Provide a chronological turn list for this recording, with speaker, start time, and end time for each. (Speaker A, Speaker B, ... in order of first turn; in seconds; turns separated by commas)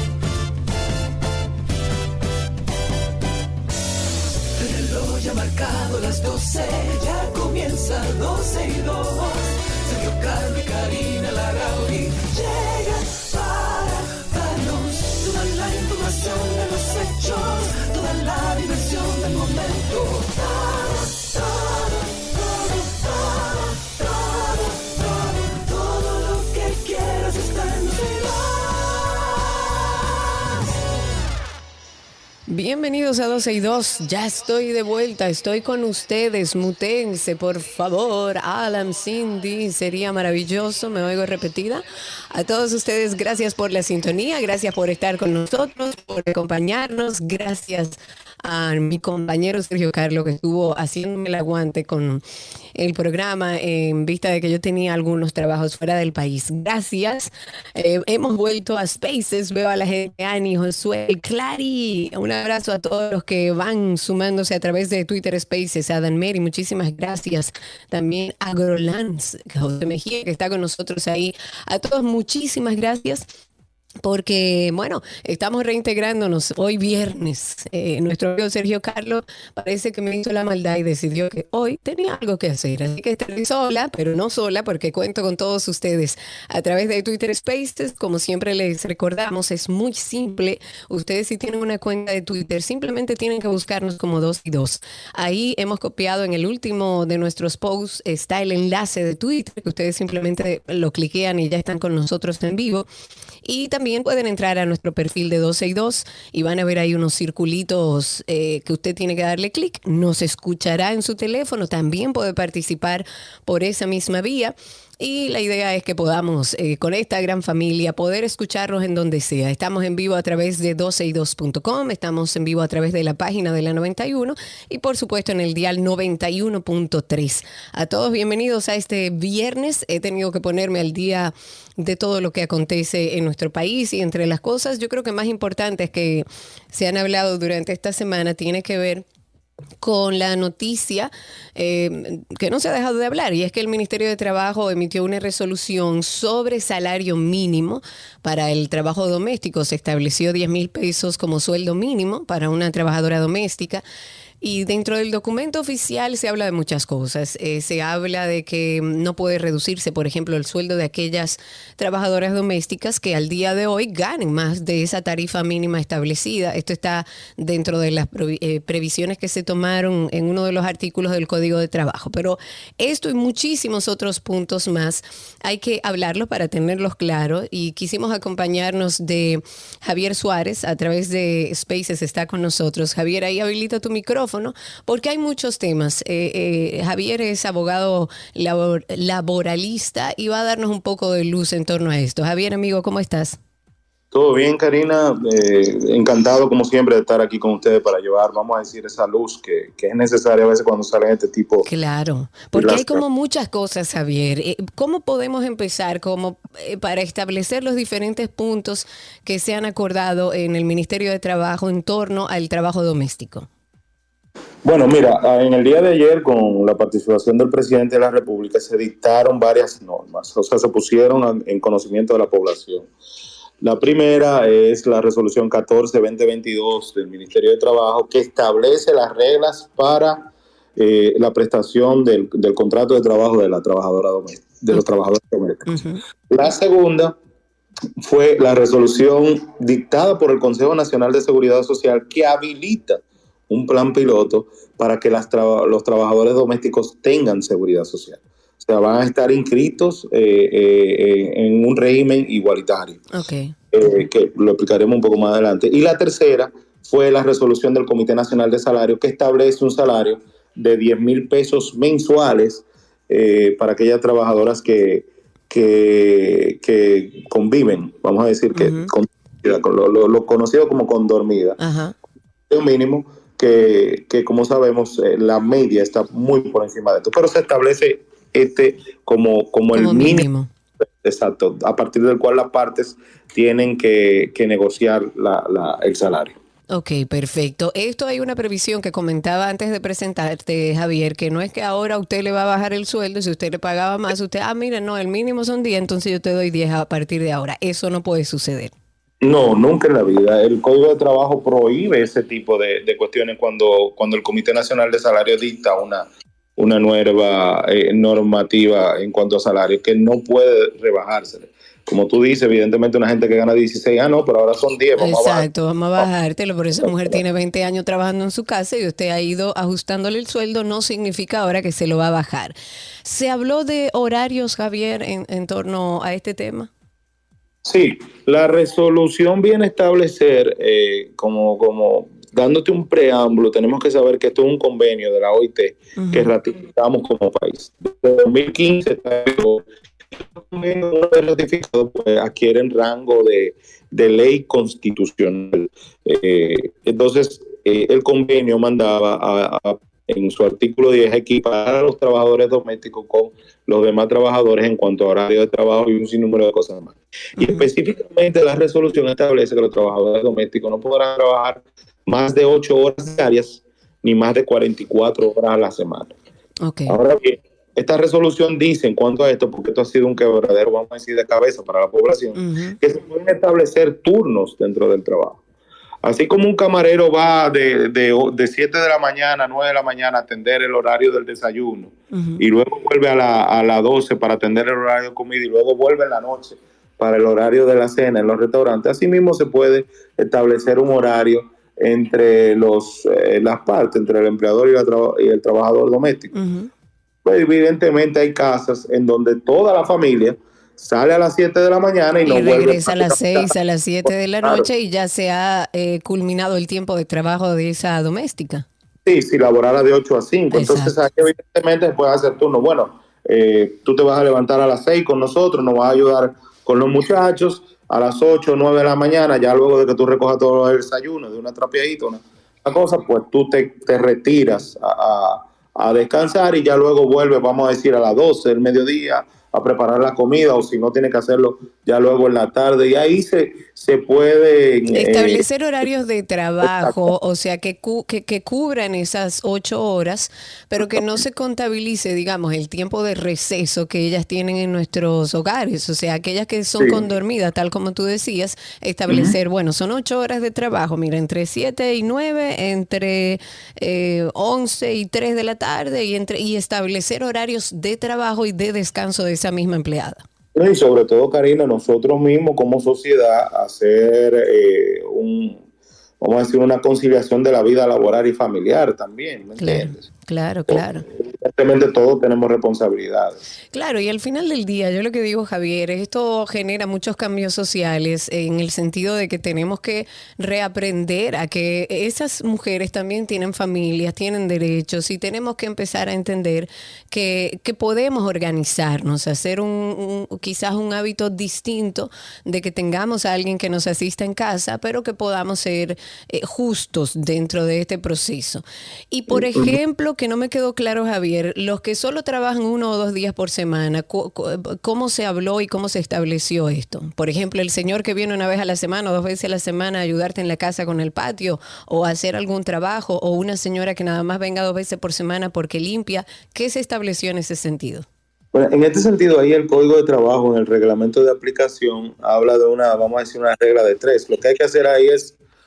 Speaker A: 4.6-29.8, Speaker B: 32.5-52.2, Speaker B: 52.7-73.2, Speaker B: 74.0-102.9, Speaker B: 103.4-139.0, Speaker B: 139.8-153.8, Speaker B: 154.4-193.4, Speaker C: 194.1-201.7, Speaker B: 201.7-213.5, Speaker C: 202.5-203.0, Speaker C: 214.6-222.9, Speaker C: 223.6-235.7, Speaker B: 235.7-236.0, Speaker C: 236.3-237.2, Speaker C: 238.0-253.0, Speaker B: 253.1-253.5, Speaker C: 253.7-271.6, Speaker B: 268.5-268.9, Speaker B: 271.6-271.9, Speaker C: 272.5-280.3, Speaker B: 279.7-280.5, Speaker C: 281.0-286.4, Speaker B: 286.7-298.7, Speaker C: 299.2-315.4, Speaker B: 315.0-326.7, Speaker C: 316.8-317.2, Speaker C: 327.6-366.1, Speaker B: 335.9-336.3, Speaker B: 357.4-357.7, Speaker B: 366.6-367.0, Speaker C: 366.9-375.4, Speaker B: 372.4-372.8, Speaker C: 376.0-396.3, Speaker B: 382.1-382.4, Speaker B: 396.3-396.7, Speaker C: 397.2-403.5, Speaker B: 402.2-408.6, Speaker C: 409.0-435.4, Speaker B: 410.5-411.0, Speaker B: 434.9-460.2, Speaker C: 436.6-437.0, Speaker C: 446.8-447.0, Speaker C: 449.1-449.3, Speaker C: 460.5-465.6, Speaker C: 466.2-470.1, Speaker B: 469.6-471.0, Speaker C: 470.7-473.4, Speaker B: 473.7-518.0, Speaker C: 499.3-499.7, Speaker C: 518.5-525.3